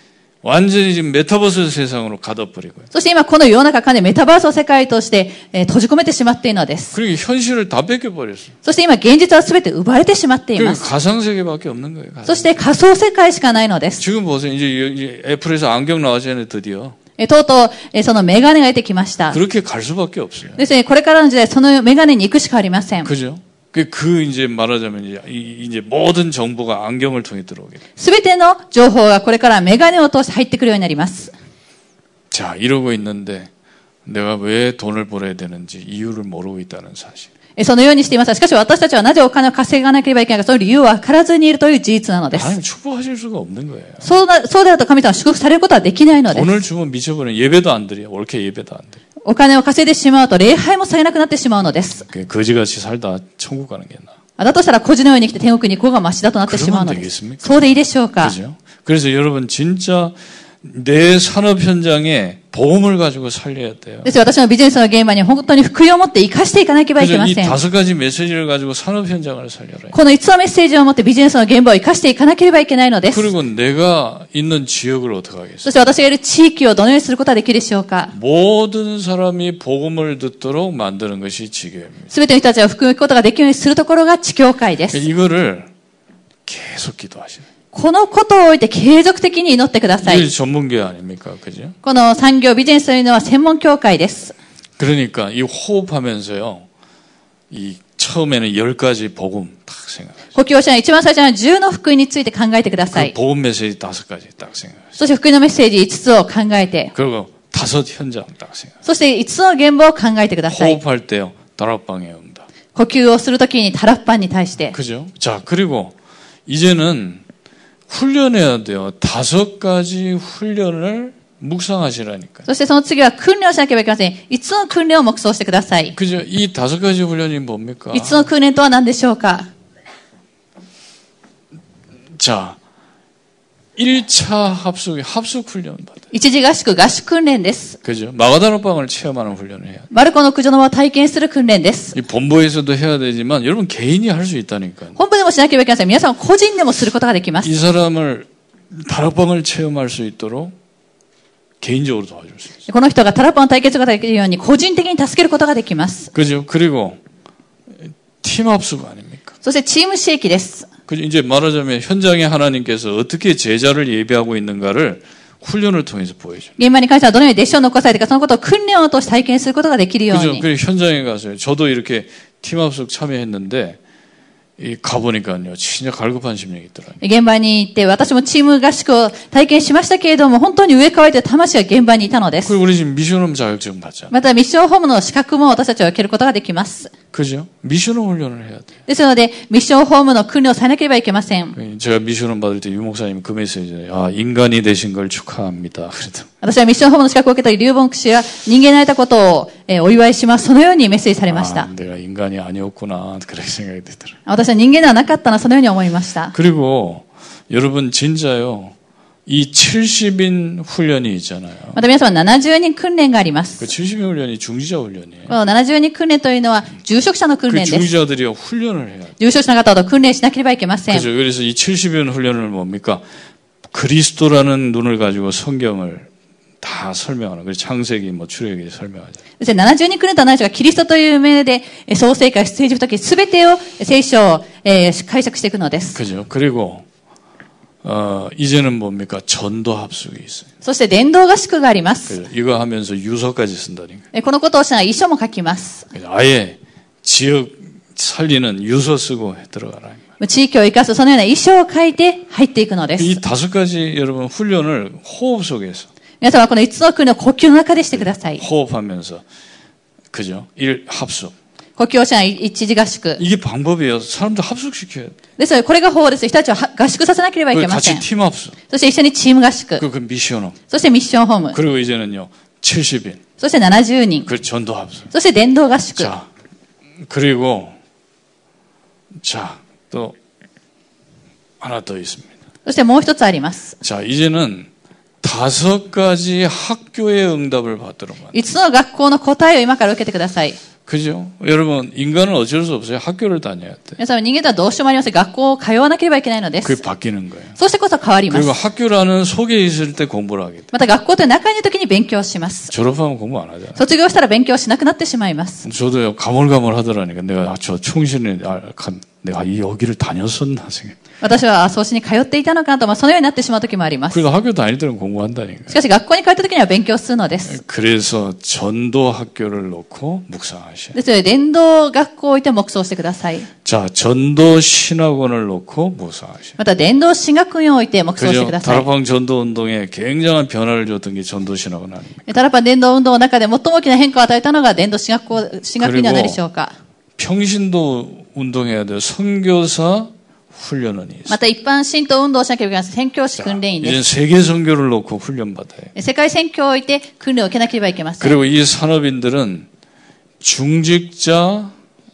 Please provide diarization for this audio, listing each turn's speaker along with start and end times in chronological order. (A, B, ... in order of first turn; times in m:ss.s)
0:00.4-0:02.9 A
0:02.9-0:06.9 B
0:06.9-0:08.5 A
0:08.6-0:10.8 B
0:10.6-0:12.5 A
0:12.3-0:14.0 B
0:14.0-0:17.0 A
0:17.2-0:19.4 B
0:19.3-0:20.6 A
0:20.6-0:23.1 B
0:23.0-0:27.8 A
0:28.0-0:31.3 B
0:32.3-0:33.5 A
0:34.0-0:37.3 A
0:37.6-0:42.5 B
0:42.3-0:44.1 A
0:44.0-0:46.5 B
0:46.3-0:49.0 A
0:49.2-0:52.0 B
0:52.0-0:54.1 A
0:54.4-0:58.3 B
0:56.4-0:57.6 A
0:58.2-1:04.1 A
1:04.0-1:07.6 B
1:07.0-1:09.9 A
1:09.9-1:13.2 B
1:13.1-1:15.7 A
1:15.6-1:18.1 B
1:18.1-1:22.1 A
1:22.1-1:25.0 B
1:24.9-1:25.7 A
1:26.4-1:27.4 A
1:27.7-1:30.2 B
1:30.0-1:31.7 A
1:31.8-1:34.3 B
1:34.8-1:36.6 A
1:37.5-1:40.3 A
1:40.3-1:43.1 B
1:42.9-1:44.9 A
1:45.0-1:46.9 B
1:46.9-1:48.8 A
1:48.8-1:50.8 B
1:50.5-1:52.5 A
1:52.7-1:54.7 B
1:54.7-1:55.9 A
1:56.4-1:57.2 A
1:57.9-2:02.4 A
2:02.5-2:05.9 B
2:05.9-2:08.2 A
2:07.9-2:09.5 B
2:12.1-2:12.6 A
2:13.8-2:16.0 A
2:16.1-2:17.8 B
2:17.8-2:19.9 A
2:19.9-2:21.9 B
2:21.9-2:25.0 A
2:25.0-2:27.5 B
2:27.4-2:30.5 A
2:31.6-2:32.6 A
2:32.7-2:36.1 B
2:36.1-2:37.0 A
2:37.8-2:39.4 A
2:39.4-2:40.7 B
2:40.9-2:46.5 A
2:46.6-2:50.4 B
2:50.1-2:53.8 A
2:54.6-2:57.0 A
2:57.0-3:02.5 B
3:02.4-3:04.1 A
3:04.1-3:06.9 B
3:07.1-3:08.7 A
3:08.9-3:11.6 B
3:11.6-3:16.3 A
3:16.4-3:21.7 B
3:21.3-3:24.2 A
3:24.3-3:26.3 B
3:26.3-3:28.7 A
3:29.2-3:31.8 A
3:31.7-3:33.7 B
3:33.6-3:35.3 A
3:35.3-3:37.9 B
3:37.5-3:39.1 A
3:39.2-3:41.1 B
3:40.9-3:43.0 A
3:43.7-3:46.1 A
3:46.6-3:49.2 A
3:49.4-3:56.0 B
3:55.9-3:56.8 A
3:57.8-4:00.5 A
4:00.6-4:02.2 B
4:02.1-4:04.0 A
4:04.1-4:05.9 B
4:05.9-4:10.0 A
4:10.2-4:13.2 B
4:13.0-4:15.9 A
4:16.2-4:18.4 B
4:17.9-4:19.2 A
4:20.1-4:21.3 A
4:21.8-4:23.2 B
4:23.2-4:25.2 A
4:25.4-4:28.0 B
4:27.5-4:28.6 A
4:28.7-4:29.8 B
4:29.8-4:30.6 A
4:30.7-4:31.6 B
4:31.5-4:33.2 A
4:33.4-4:34.3 B
4:34.2-4:35.1 A
4:35.1-4:36.1 B
4:36.0-4:36.3 A
4:37.0-4:37.7 A
4:39.2-4:40.1 A
4:41.6-4:42.3 A
4:42.6-4:43.8 B
4:43.8-4:44.7 A
4:45.2-4:48.3 A
4:48.3-4:50.6 B
4:50.8-4:54.0 A
4:54.0-4:56.8 B
4:56.6-4:57.6 A
4:57.6-4:58.5 B
4:58.3-5:00.7 A
5:00.7-5:02.7 B
5:02.7-5:03.8 A
5:03.8-5:05.6 B
5:05.6-5:11.0 A
5:11.2-5:14.2 B
5:14.1-5:15.8 A
5:15.7-5:17.5 B
5:17.5-5:20.9 A
5:20.9-5:23.5 B
5:23.6-5:26.6 A
5:26.6-5:28.8 B
5:28.2-5:32.2 A
5:32.3-5:36.7 B
5:35.8-5:36.4 A
5:37.2-5:41.4 A
5:41.3-5:44.0 B
5:43.4-5:45.9 A
5:46.0-5:48.4 B
5:48.2-5:49.7 A
5:50.4-5:51.7 A